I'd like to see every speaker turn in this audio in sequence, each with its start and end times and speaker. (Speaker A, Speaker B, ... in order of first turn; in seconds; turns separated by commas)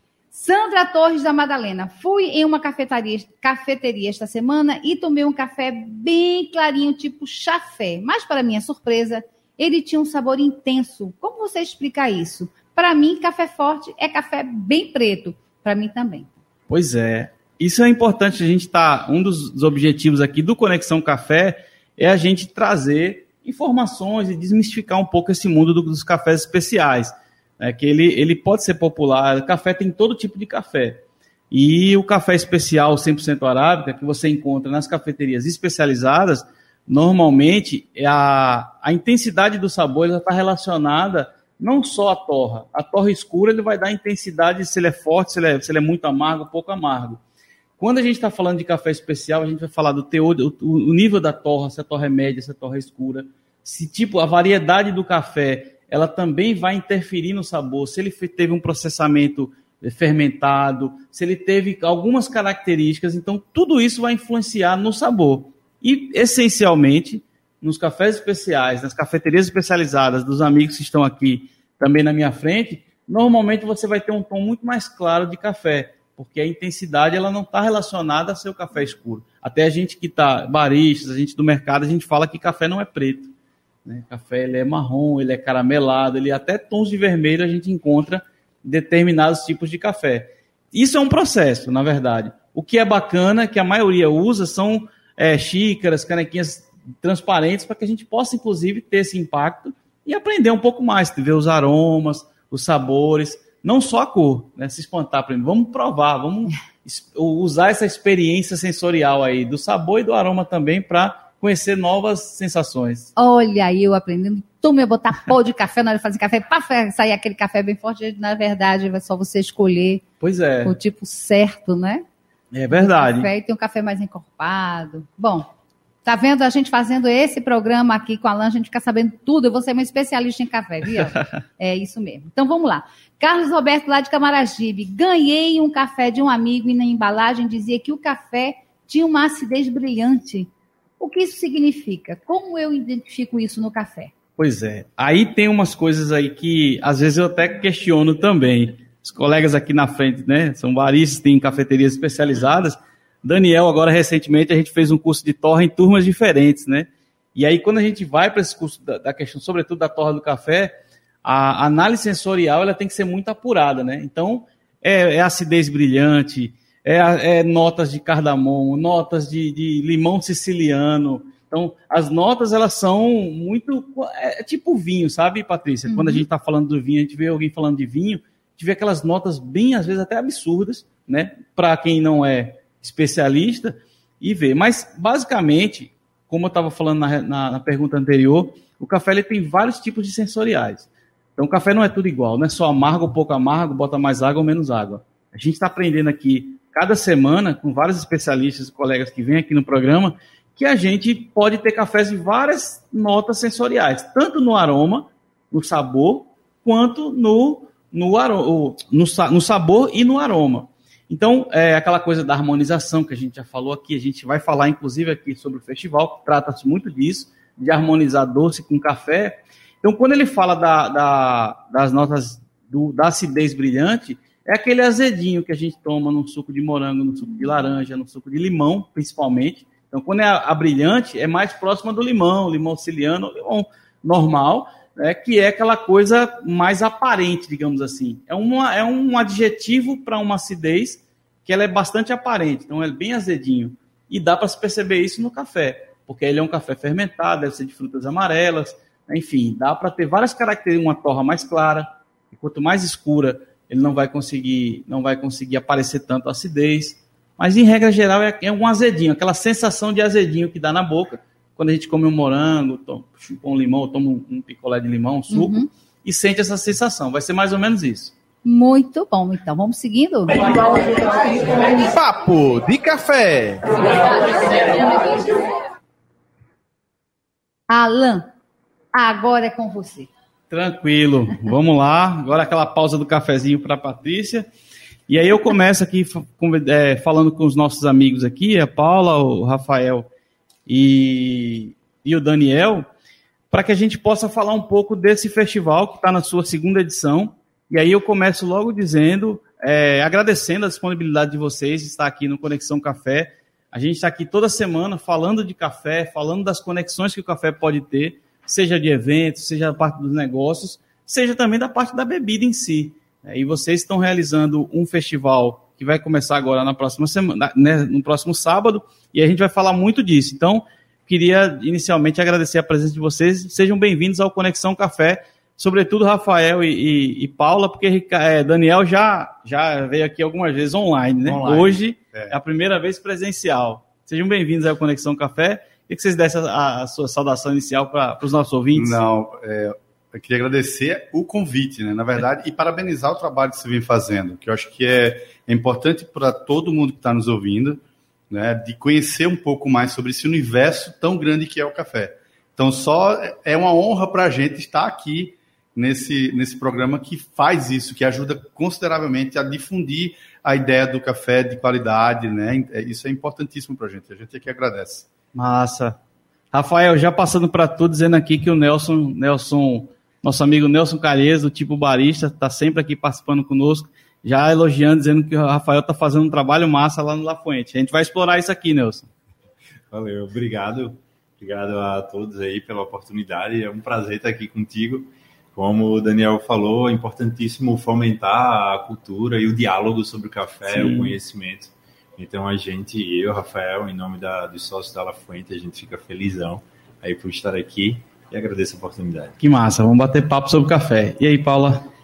Speaker A: 0.3-16.3, Speaker B: 16.7-47.2, Speaker B: 47.8-83.3, Speaker B: 83.8-113.1, Speaker A: 113.2-120.0, Speaker B: 120.2-120.7, Speaker A: 120.6-122.0, Speaker B: 122.5-123.3, Speaker A: 122.7-125.5, Speaker A: 126.0-144.1, Speaker B: 144.4-160.7, Speaker B: 161.2-268.1, Speaker A: 175.9-176.2, Speaker A: 265.3-265.7, Speaker A: 268.4-270.4, Speaker C: 271.8-273.9, Speaker A: 277.7-278.3, Speaker A: 278.9-280.1, Speaker B: 280.5-284.5, Speaker B: 285.1-290.1, Speaker B: 290.7-292.9, Speaker B: 293.5-339.0, Speaker D: 331.2-332.4, Speaker D: 338.7-365.1, Speaker B: 365.3-366.0, Speaker B: 366.5-379.1, Speaker E: 379.9-399.4, Speaker B: 390.7-391.1, Speaker B: 399.4-401.9